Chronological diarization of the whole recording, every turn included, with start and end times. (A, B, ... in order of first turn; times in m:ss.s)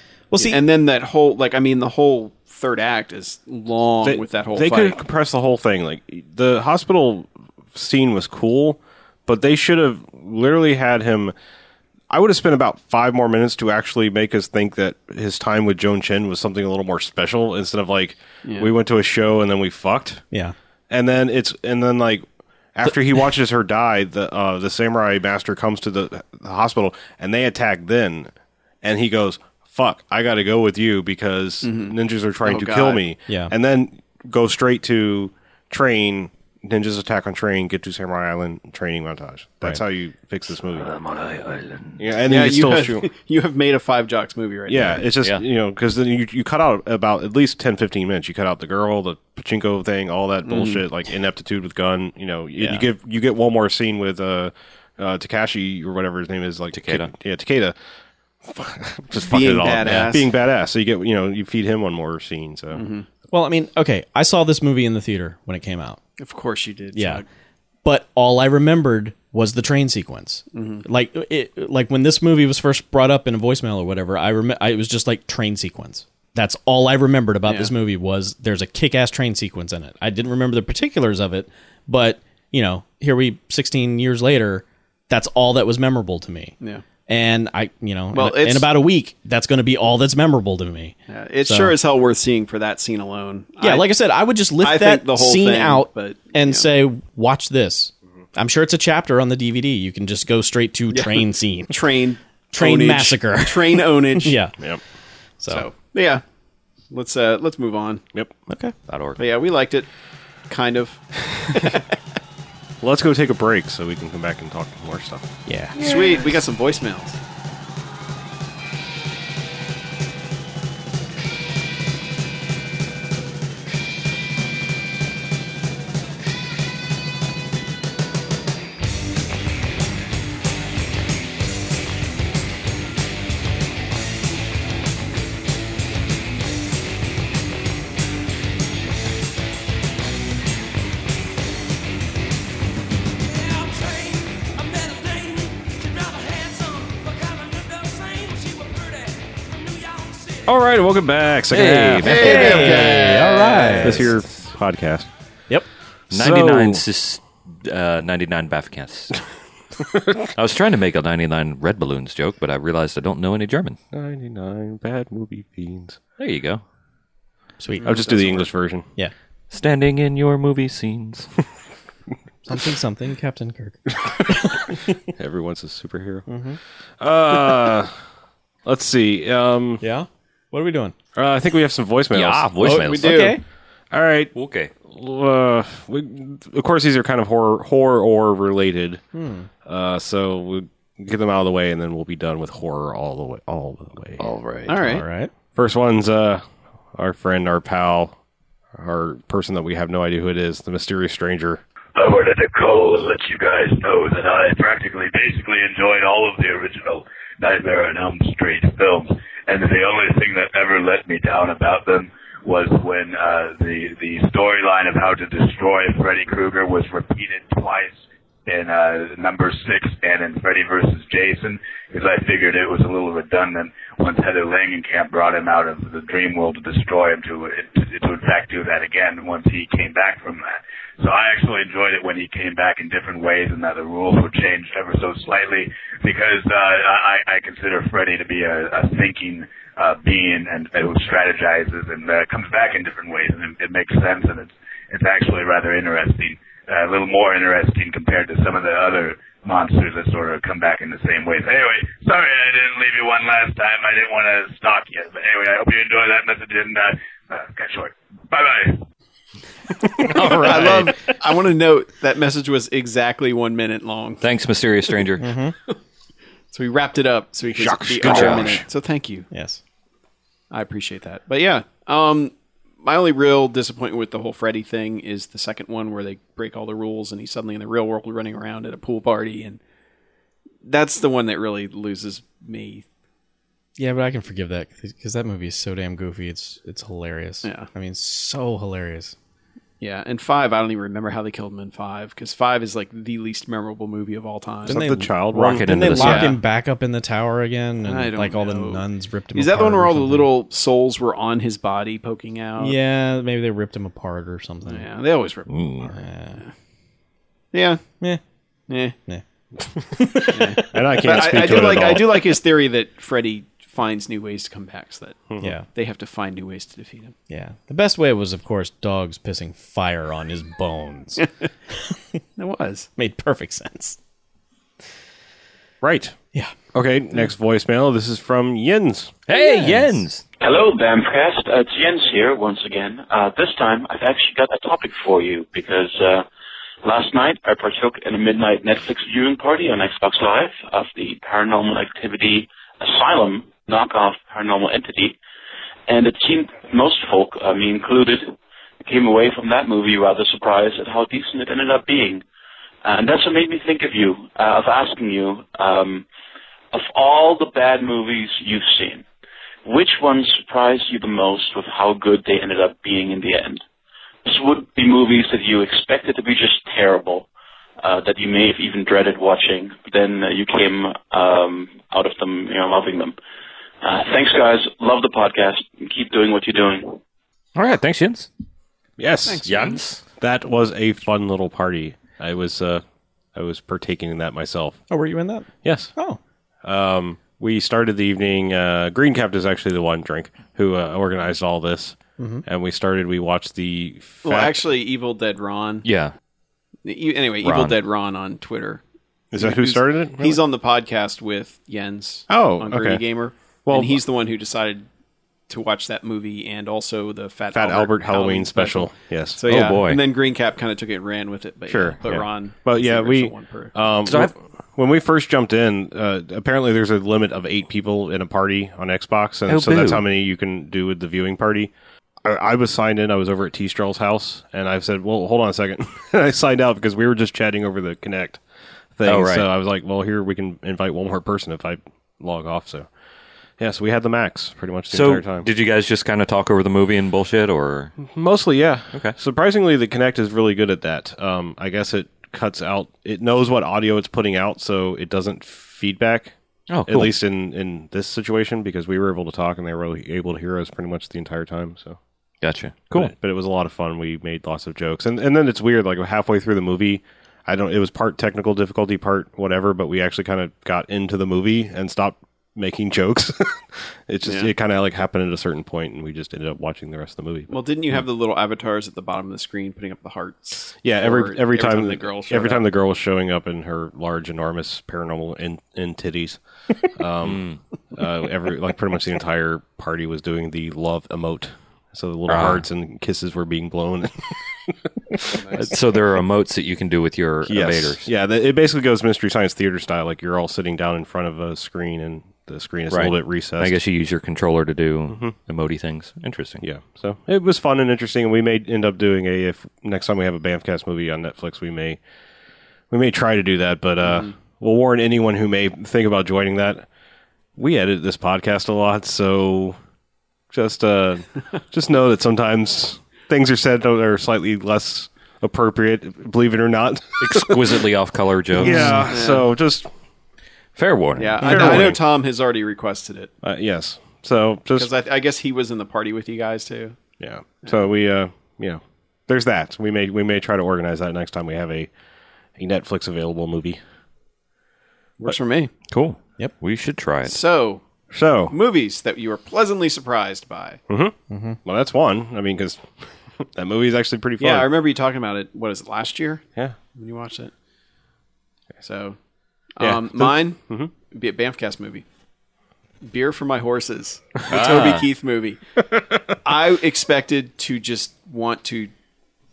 0:00.3-0:00.6 A
0:00.4-0:05.0 B
0:04.0-0:11.3 C
0:12.1-0:20.2 C
0:18.4-0:18.7 B
0:20.9-0:28.3 C
0:28.8-0:40.9 C
0:31.6-0:33.0 B
0:33.3-0:33.5 A
0:40.7-0:42.0 D
0:42.0-0:43.1 C
0:42.3-0:45.1 B
0:44.7-0:57.8 C
0:50.5-0:50.8 B
0:52.6-0:52.8 A
0:56.7-0:57.1 D
0:58.4-1:02.8 C
0:59.2-1:00.3 B
1:02.7-1:03.1 B
1:03.3-1:06.0 A
1:06.2-1:07.3 B
1:06.9-1:07.2 A
1:07.8-1:26.6 A
1:10.5-1:10.8 B
1:17.5-1:17.7 B
1:27.1-1:31.8 A
1:28.1-1:28.7 B
1:31.1-1:33.9 B
1:33.6-1:41.8 A
1:34.6-1:36.7 B
1:40.9-1:44.4 B
1:42.5-1:44.5 A
1:45.4-1:45.7 A
1:45.5-1:46.2 B
1:46.9-1:48.0 B
1:48.5-1:48.7 A
1:48.9-1:49.2 D
1:49.2-1:49.9 B
1:50.5-1:51.8 B
1:52.8-1:56.2 C
1:55.5-1:55.8 A
1:55.8-1:57.2 B
2:30.4-2:35.1 C
2:31.5-2:33.2 D
2:32.0-2:33.6 B
2:32.1-2:34.1 A
2:36.1-2:36.8 C
2:36.1-2:39.2 D
2:40.3-2:43.8 D
2:43.9-2:46.0 C
2:46.2-2:46.6 D
2:47.6-2:48.0 A
2:47.8-2:48.5 B
2:47.8-2:48.9 C
2:49.5-2:51.3 D
2:52.5-2:54.9 A
2:55.1-2:56.3 C
2:56.3-2:56.6 A
2:57.0-2:57.9 C
2:58.6-2:59.8 C
2:59.8-3:00.9 A
3:01.2-3:03.2 C
3:02.1-3:03.3 D
3:02.6-3:03.4 B
3:02.6-3:03.4 A
3:03.9-3:04.3 C
3:04.4-3:04.7 D
3:04.9-3:09.0 C
3:09.1-3:09.5 A
3:09.6-3:14.2 C
3:14.2-3:14.9 D
3:14.7-3:15.0 B
3:14.8-3:15.3 A
3:15.6-3:18.2 C
3:18.8-3:21.6 C
3:22.0-4:18.8 E
4:20.0-4:20.9 C
4:20.1-4:24.2 B
4:20.4-4:20.6 D
4:24.2-4:25.3 D
4:25.2-4:25.5 A
4:26.5-4:29.3 B
4:27.5-4:28.7 C
4:28.0-4:28.5 D
4:29.3-4:29.6 A
4:30.5-4:39.6 B
4:40.6-4:42.8 B
4:43.8-4:49.2 A
4:47.4-4:47.7 B
4:49.8-4:54.8 B
4:54.7-4:56.2 C
4:54.7-5:00.3 A
4:55.5-4:56.4 D
4:55.9-4:56.4 B
4:57.8-4:58.8 B
4:59.4-5:02.8 B
5:02.6-5:04.9 A
5:04.7-5:06.5 B
5:05.5-5:05.9 D
5:05.9-5:06.4 A
5:07.5-5:07.8 B
5:08.7-5:09.0 B
5:09.9-5:11.8 A
5:10.0-5:12.3 C
5:10.3-5:17.2 B
5:15.4-5:15.7 A
5:17.3-5:21.3 A
5:22.4-5:22.9 B
5:23.0-5:24.0 A
5:25.8-5:26.2 C
5:26.7-5:29.2 C
5:29.3-5:30.2 D
5:29.3-5:30.0 A
5:30.4-5:36.3 F
5:36.8-5:45.2 F
5:45.9-5:52.2 F
5:52.8-5:56.0 F
5:56.7-5:59.0 F
5:59.6-6:03.6 F
6:04.2-6:07.3 F
6:07.8-6:13.2 F
6:13.8-6:17.0 F
6:17.6-6:18.3 D
6:19.0-6:19.5 C
6:19.2-6:19.8 B
6:19.4-6:20.0 D
6:20.2-6:24.8 C
6:24.9-6:26.2 A
6:25.6-6:25.9 C
6:26.6-6:34.6 C
6:32.2-6:32.4 A
6:34.2-6:35.9 B
6:35.8-6:36.1 D
6:36.8-6:38.8 B
6:37.4-6:37.8 D
6:39.3-6:40.4 C
6:39.4-6:44.9 B
6:42.3-6:43.0 C
6:43.7-6:44.0 C
6:45.5-6:53.8 B
6:47.5-6:49.8 C
6:49.5-6:50.0 D
6:51.7-7:08.4 C
6:54.1-6:54.3 D
6:59.5-7:00.0 D
7:09.0-7:12.9 C
7:09.1-7:09.5 D
7:13.6-7:15.5 C
7:14.9-7:18.0 D
7:18.0-7:26.4 C
7:26.7-7:27.1 D
7:26.9-7:32.0 C
7:32.4-7:33.1 D
7:32.9-7:47.5 C
7:44.2-7:44.5 B
7:47.5-7:52.7 B
7:50.8-8:05.7 C
7:57.2-7:57.6 D
8:02.3-8:02.6 D
8:05.3-8:05.8 B
8:05.6-8:08.1 D
8:07.5-8:13.8 C
8:12.9-8:16.6 D
8:15.1-8:15.3 C
8:16.6-8:22.0 C
8:22.9-8:26.9 C
8:24.0-8:24.3 B
8:27.6-8:29.8 C
8:30.5-8:37.8 C
8:37.2-8:39.0 D
8:38.5-8:39.9 C
8:38.6-8:39.1 A
8:39.1-8:39.5 B
8:40.8-8:42.0 D
8:41.2-8:43.3 B
8:41.4-8:42.0 C
8:43.4-8:44.9 C
8:44.8-8:47.0 B
8:47.2-8:51.9 C
8:52.6-8:53.8 C
8:55.2-8:55.7 B
8:55.9-8:57.4 D
8:57.2-8:57.8 B
8:58.1-8:58.6 C
8:58.5-9:00.8 B
9:00.9-9:04.7 C
9:01.3-9:01.6 A
9:04.4-9:07.5 B
9:08.8-9:09.2 B
9:09.8-9:12.0 B
9:09.8-9:10.9 C
9:13.0-9:15.6 B
9:14.5-9:15.1 D
9:16.4-9:18.9 B